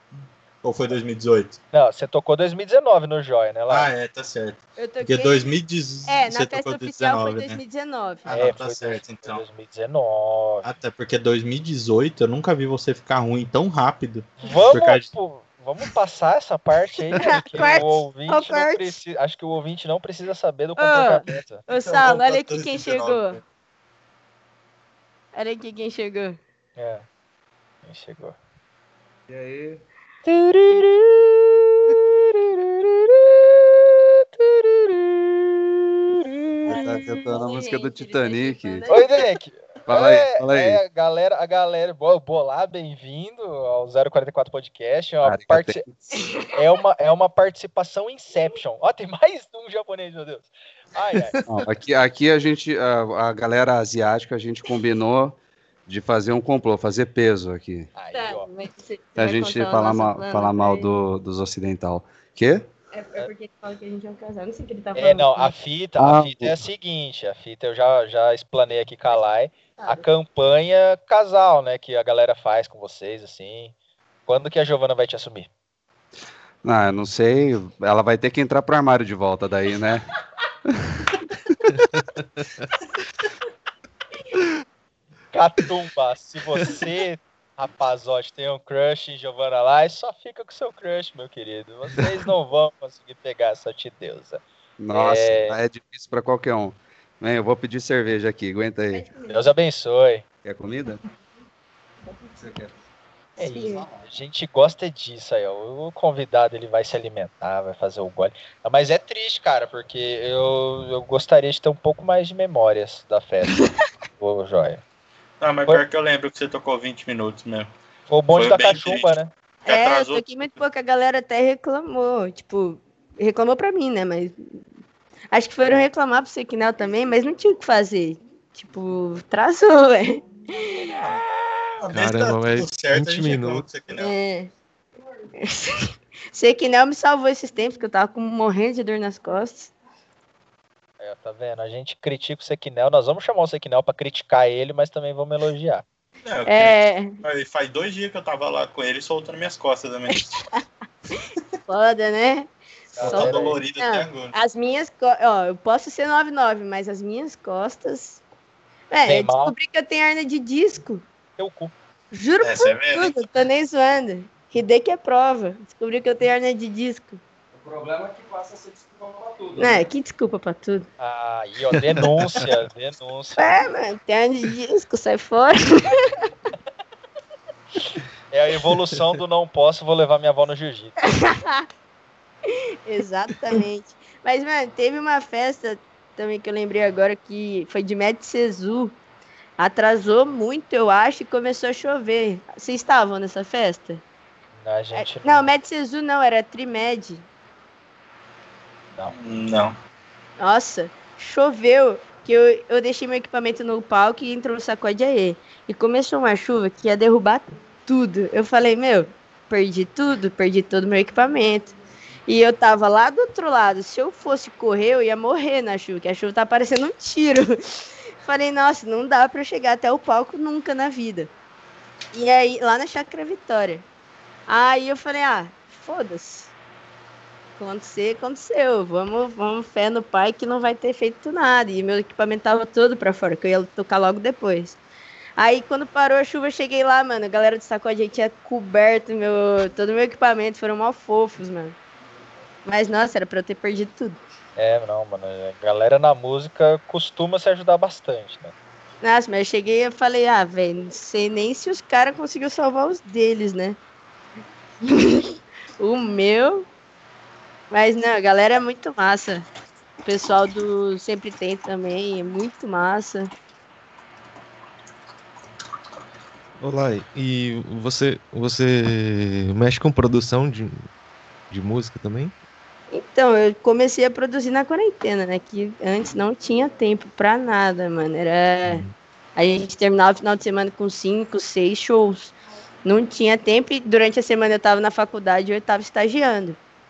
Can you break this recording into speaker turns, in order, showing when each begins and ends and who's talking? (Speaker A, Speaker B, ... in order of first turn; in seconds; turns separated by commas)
Speaker A: 0.6-1.6, Speaker B: 1.7-3.9, Speaker A: 3.7-7.6, Speaker C: 4.8-5.5, Speaker C: 6.1-8.3, Speaker A: 8.3-9.4, Speaker B: 8.3-10.7, Speaker A: 10.6-15.1, Speaker B: 14.4-21.6, Speaker C: 17.1-18.9, Speaker A: 17.6-17.8, Speaker C: 20.8-23.4, Speaker A: 21.7-23.4, Speaker C: 25.3-26.4, Speaker B: 26.8-27.1, Speaker B: 27.8-28.4, Speaker D: 29.3-29.8, Speaker B: 30.3-37.0, Speaker D: 36.6-39.0, Speaker C: 36.7-39.0, Speaker B: 38.9-45.9, Speaker D: 39.9-40.8, Speaker D: 45.2-45.9, Speaker C: 46.2-46.4, Speaker B: 46.5-51.4, Speaker D: 51.5-55.4, Speaker D: 55.9-57.9, Speaker B: 58.0-58.5, Speaker C: 58.1-60.9, Speaker D: 59.2-62.6, Speaker C: 62.9-65.5, Speaker B: 65.0-73.7, Speaker D: 66.0-66.6, Speaker B: 74.3-75.5, Speaker D: 76.6-80.1, Speaker B: 85.3-95.6, Speaker D: 94.8-99.1, Speaker C: 98.9-99.5, Speaker B: 99.3-100.2, Speaker D: 100.4-101.0, Speaker D: 102.4-102.7, Speaker C: 103.4-103.8, Speaker B: 103.4-113.7, Speaker B: 114.2-114.8, Speaker A: 115.4-117.7, Speaker B: 118.1-119.3, Speaker A: 118.3-119.1, Speaker A: 119.6-120.3, Speaker C: 119.7-124.3, Speaker C: 125.3-130.9, Speaker A: 130.9-131.3, Speaker A: 131.8-134.1, Speaker E: 131.9-133.7, Speaker C: 133.9-134.5, Speaker C: 135.4-139.7, Speaker B: 141.0-145.8, Speaker A: 146.3-150.5, Speaker C: 146.5-147.2, Speaker C: 151.1-158.2, Speaker B: 152.9-153.6, Speaker A: 153.0-154.3, Speaker C: 158.9-161.1, Speaker B: 159.1-159.6, Speaker B: 161.4-161.7, Speaker C: 162.1-167.2, Speaker A: 162.4-163.2, Speaker D: 167.5-169.8, Speaker C: 169.6-170.9, Speaker B: 171.0-173.6, Speaker C: 173.4-176.3, Speaker B: 178.3-181.0, Speaker C: 181.0-181.7, Speaker C: 182.4-188.9, Speaker C: 189.6-194.0, Speaker B: 194.6-195.5, Speaker C: 194.9-197.2, Speaker A: 199.1-199.8, Speaker C: 200.4-211.8, Speaker C: 212.3-221.3, Speaker C: 222.1-223.8, Speaker C: 224.5-226.5, Speaker C: 227.6-234.8, Speaker C: 235.4-241.8, Speaker C: 242.6-244.2, Speaker B: 244.6-248.5, Speaker C: 249.0-253.8, Speaker C: 254.8-256.6, Speaker C: 257.7-259.4, Speaker C: 260.1-263.3, Speaker E: 266.6-270.9, Speaker E: 271.5-272.3, Speaker C: 272.9-278.8, Speaker C: 279.4-282.3, Speaker C: 282.8-286.6